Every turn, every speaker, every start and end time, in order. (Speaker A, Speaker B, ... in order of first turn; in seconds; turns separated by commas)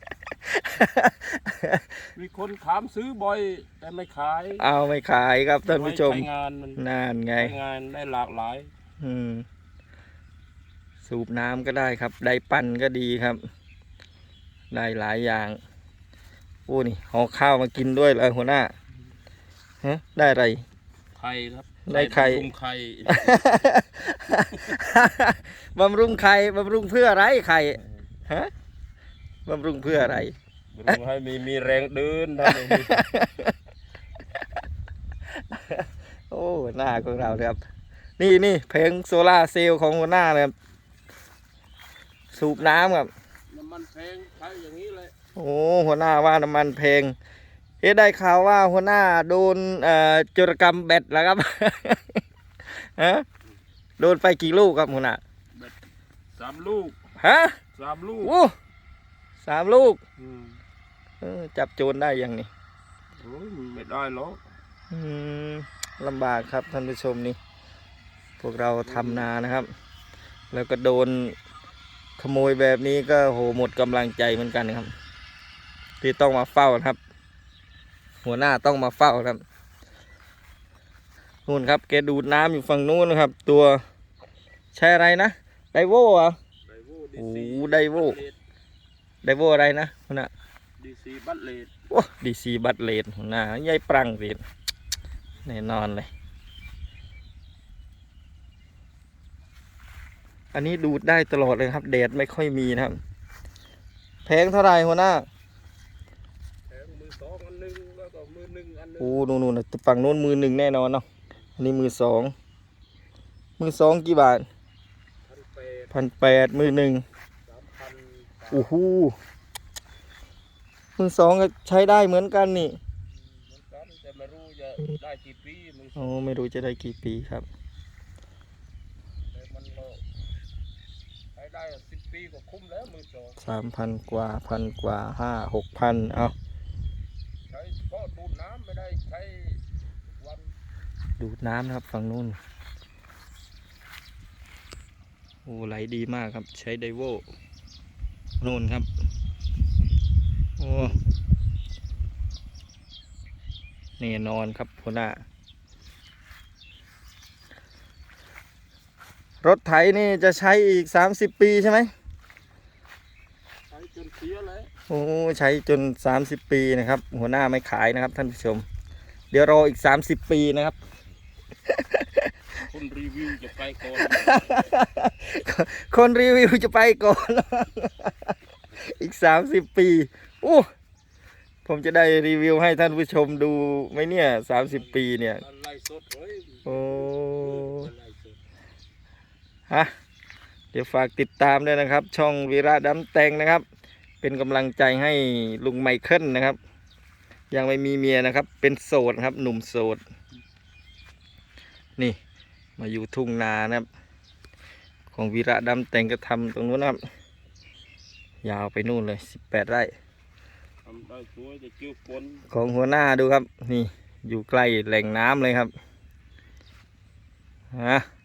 Speaker A: 0.5-1.9, Speaker B: 2.1-4.6, Speaker A: 4.6-7.5, Speaker B: 5.7-6.8, Speaker B: 7.3-8.7, Speaker A: 9.0-9.4, Speaker A: 11.0-13.4, Speaker A: 14.7-15.6, Speaker A: 16.7-18.7, Speaker A: 19.8-20.6, Speaker B: 21.1-23.4, Speaker A: 21.9-22.5, Speaker A: 23.1-28.5, Speaker A: 29.4-30.3, Speaker B: 30.7-33.0, Speaker A: 32.5-33.5, Speaker A: 35.3-37.6, Speaker A: 38.2-40.5, Speaker A: 42.3-43.1, Speaker B: 42.3-43.0, Speaker B: 43.5-45.1, Speaker A: 45.4-47.1, Speaker A: 47.8-53.2, Speaker A: 54.0-55.2, Speaker B: 56.3-57.0, Speaker A: 57.2-57.6, Speaker B: 57.7-58.4, Speaker A: 58.2-58.5, Speaker A: 59.4-60.0, Speaker B: 60.2-60.6, Speaker A: 61.2-62.5, Speaker B: 63.2-64.4, Speaker A: 64.9-67.4, Speaker A: 68.4-69.7, Speaker B: 68.8-69.3, Speaker A: 70.5-71.3, Speaker A: 72.2-74.9, Speaker A: 76.0-77.0, Speaker A: 78.2-79.4, Speaker A: 81.5-83.8, Speaker A: 84.7-86.4, Speaker B: 86.7-88.4, Speaker A: 87.2-88.2, Speaker A: 89.2-90.3, Speaker B: 90.8-91.7, Speaker A: 91.9-94.4, Speaker A: 95.4-96.1, Speaker A: 100.5-103.0, Speaker A: 104.2-105.3, Speaker B: 106.7-109.3, Speaker A: 109.0-111.0, Speaker A: 111.6-112.3, Speaker A: 113.6-114.5, Speaker B: 115.2-115.9, Speaker A: 115.9-117.0, Speaker B: 117.4-118.7, Speaker A: 118.5-119.2, Speaker A: 121.0-122.8, Speaker B: 123.1-126.1, Speaker A: 126.0-127.5, Speaker B: 129.3-130.0, Speaker B: 131.3-133.4, Speaker A: 133.4-136.3, Speaker B: 137.5-140.5, Speaker A: 141.2-142.4, Speaker A: 145.4-147.2, Speaker A: 148.4-148.9, Speaker A: 150.6-151.0, Speaker A: 154.0-155.2, Speaker A: 159.4-161.9, Speaker B: 163.7-164.7, Speaker A: 164.9-168.7, Speaker A: 169.3-170.8, Speaker A: 171.7-172.3, Speaker B: 172.6-174.7, Speaker A: 174.0-180.7, Speaker A: 181.6-185.4, Speaker B: 184.7-188.4, Speaker A: 186.7-187.9, Speaker A: 190.7-193.6, Speaker A: 194.2-196.6, Speaker A: 197.5-200.0, Speaker A: 202.8-203.9, Speaker A: 205.1-207.0, Speaker A: 208.4-209.9, Speaker B: 210.8-212.4, Speaker A: 212.5-215.7, Speaker A: 217.7-218.1